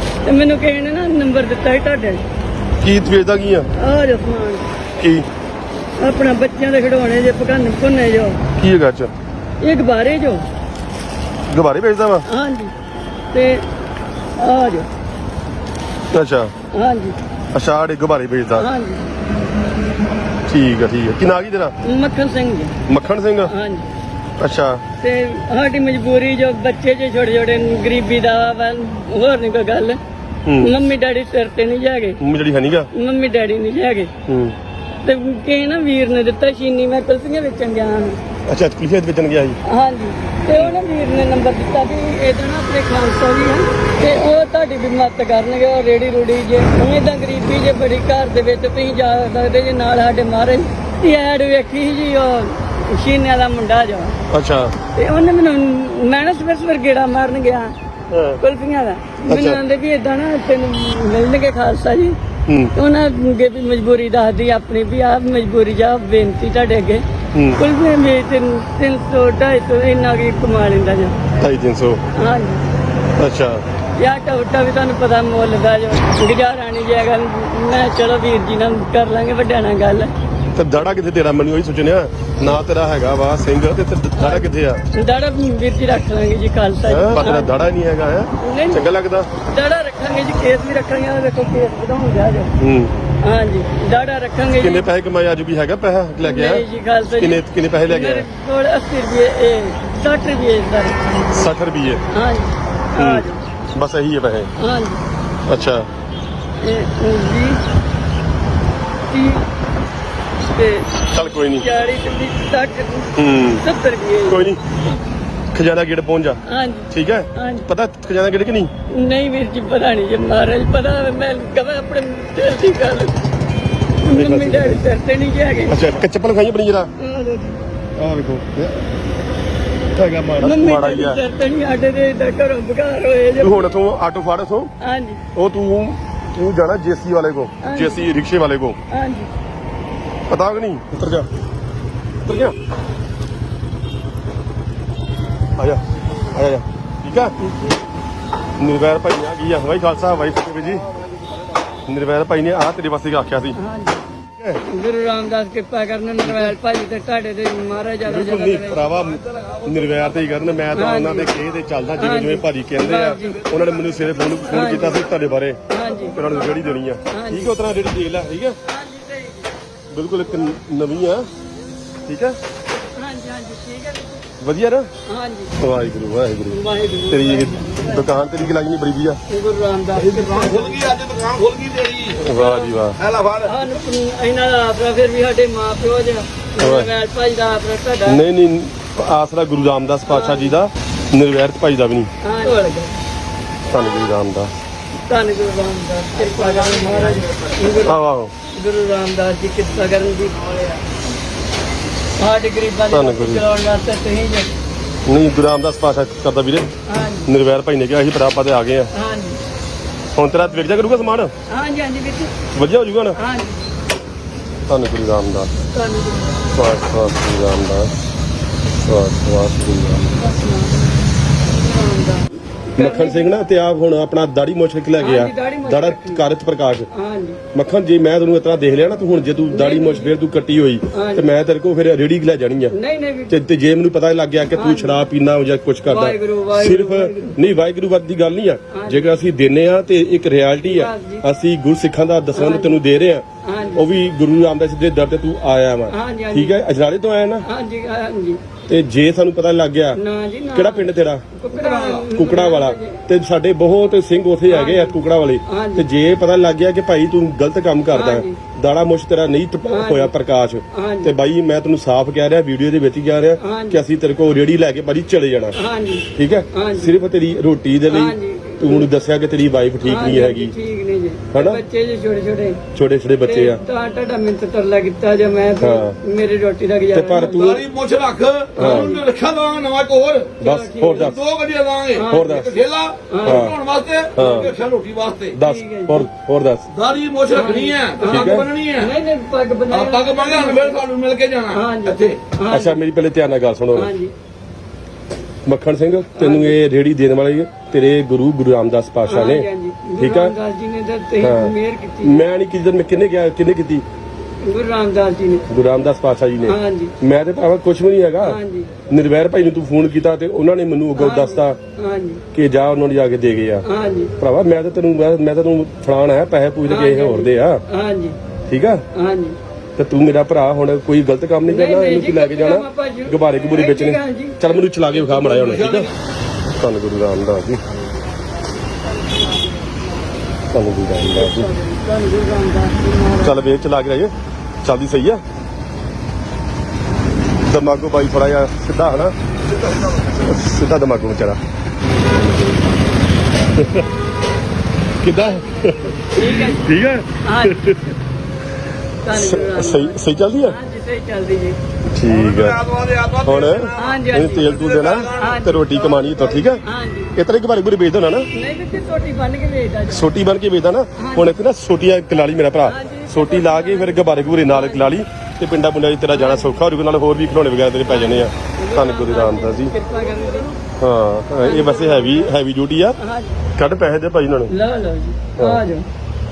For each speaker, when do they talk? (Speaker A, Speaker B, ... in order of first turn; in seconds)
Speaker A: 0.2-2.2, 3.8-4.7, 6.0-8.4, 9.6-10.4, 12.2-12.7, 13.3-13.6, 14.4-14.9, 16.7-17.1, 18.6-19.0, 21.8-22.8, 23.4-23.9, 25.0-30.0, 30.6-32.2, 32.9-34.1, 35.0-38.2, 39.6-54.2, 54.9-57.7, 58.4-62.1, 62.7-67.0, 67.5-71.2, 72.1-72.6, 74.0-80.1, 84.2-87.6, 88.4-88.8, 89.4-92.5, 93.2-94.8, 96.2-101.3, 102.1-103.4, 104.6-105.0, 106.6-107.6, 109.1-109.5, 110.5-111.0, 111.5-114.5, 116.5-117.7, 118.9-123.2, 124.0-125.8, 127.0-127.6, 130.4-133.7, 134.8-135.2, 137.6-138.1, 138.9-139.3, 147.4-147.7, 153.5-154.0, 154.6-158.9, 160.7-161.3, 162.0-163.4, 164.5-165.0, 165.7-166.3, 167.1-167.5, 168.7-169.5, 172.7-174.3, 175.1-175.5, 176.5-178.1, 179.3-180.9, 182.3-182.8, 183.4-188.2, 190.1-190.5, 192.2-192.9, 195.1-198.0, 198.5-200.8, 202.2-204.5, 206.9-207.3, 208.9-209.4, 211.5-212.3, 213.1-213.7, 215.7-216.5, 220.2-223.3, 225.0-226.2, 226.9-227.4, 229.5-230.2, 230.9-231.3, 232.7-233.4, 234.5-235.0, 235.8-237.4, 238.7-239.2, 240.6-241.2, 242.3-242.8, 243.4-243.9, 245.9-246.6, 247.4-248.4, 249.9-253.0, 254.5-254.9, 255.4-255.9, 257.9-258.4, 259.7-260.1, 260.7-261.1, 263.4-263.8, 265.5-266.9, 267.9-268.9, 269.8-272.6, 273.2-277.6, 278.6-279.0, 280.4-281.2, 281.9-282.5, 283.1-283.5, 284.2-284.5, 285.4-286.1, 287.3-290.8, 291.5-292.8, 293.7-294.1, 296.1-296.6, 299.1-302.2, 304.4-305.5, 306.5-306.9, 308.2-308.7, 310.9-312.2, 313.6-314.1, 316.7-318.1, 318.9-319.4, 321.4-325.3, 331.1-333.5, 346.1-346.6, 347.2-347.7, 349.0-351.6, 353.8-356.0, 356.6-357.1, 358.3-360.1, 361.0-361.3, 362.6-365.0, 366.1-366.6, 367.9-370.6, 371.4-372.3, 373.0-373.4, 374.5-375.8
Speaker B: 2.8-3.7, 5.0-5.2, 8.6-9.1, 11.5-12.3, 16.1-16.5, 17.5-18.7, 20.5-21.7, 22.9-23.5, 24.4-24.8, 30.4-30.8, 32.2-32.9, 34.3-34.5, 38.5-39.6, 54.3-54.7, 58.1-58.4, 59.2-59.6, 62.5-62.7, 67.3-67.6, 71.4-72.0, 73.2-73.6, 80.5-84.8, 86.8-89.3, 92.6-92.9, 94.5-98.3, 101.3-102.0, 103.0-104.5, 105.5-105.9, 111.1-111.7, 113.2-113.7, 114.2-114.6, 115.5-118.7, 124.1-124.8, 125.7-126.9, 128.0-128.9, 129.9-131.2, 133.4-134.7, 135.3-138.8, 140.3-141.3, 142.2-142.6, 145.6-147.3, 148.6-150.9, 151.9-153.6, 156.2-156.6, 158.0-168.6, 169.9-171.3, 172.1-172.4, 174.4-174.9, 175.6-176.6, 177.1-179.2, 182.2-183.0, 186.6-186.9, 188.1-192.1, 193.7-194.5, 197.8-198.3, 202.9-203.5, 205.1-206.7, 207.2-208.9, 210.1-211.3, 212.5-213.2, 214.7-215.5, 216.5-217.9, 218.7-220.4, 222.8-226.9, 227.5-232.7, 233.3-247.4, 248.7-250.0, 250.5-251.3, 252.0-265.6, 266.1-270.5, 271.3-271.6, 272.7-273.6, 275.6-276.0, 276.9-277.6, 278.6-278.9, 280.4-281.2, 282.0-282.7, 283.2-283.6, 284.1-284.5, 285.3-286.7, 288.1-288.5, 292.5-293.9, 295.4-300.4, 301.2-303.8, 305.5-311.6, 312.3-313.7, 314.2-317.6, 318.5-318.8, 319.8-325.9, 326.5-327.6, 330.5-331.5, 333.2-335.2, 337.4-341.4, 342.1-342.7, 343.5-343.9, 345.0-347.9, 349.1-350.6, 351.9-352.6, 353.2-356.6, 357.1-358.3, 359.9-369.7, 370.8-373.0, 373.6-374.5, 375.4-375.6
Speaker C: 179.9-182.3, 183.0-183.6, 277.3-280.4, 280.9-285.4, 286.7-288.9, 289.7-292.2, 325.1-325.9, 352.1-353.8, 354.4-355.4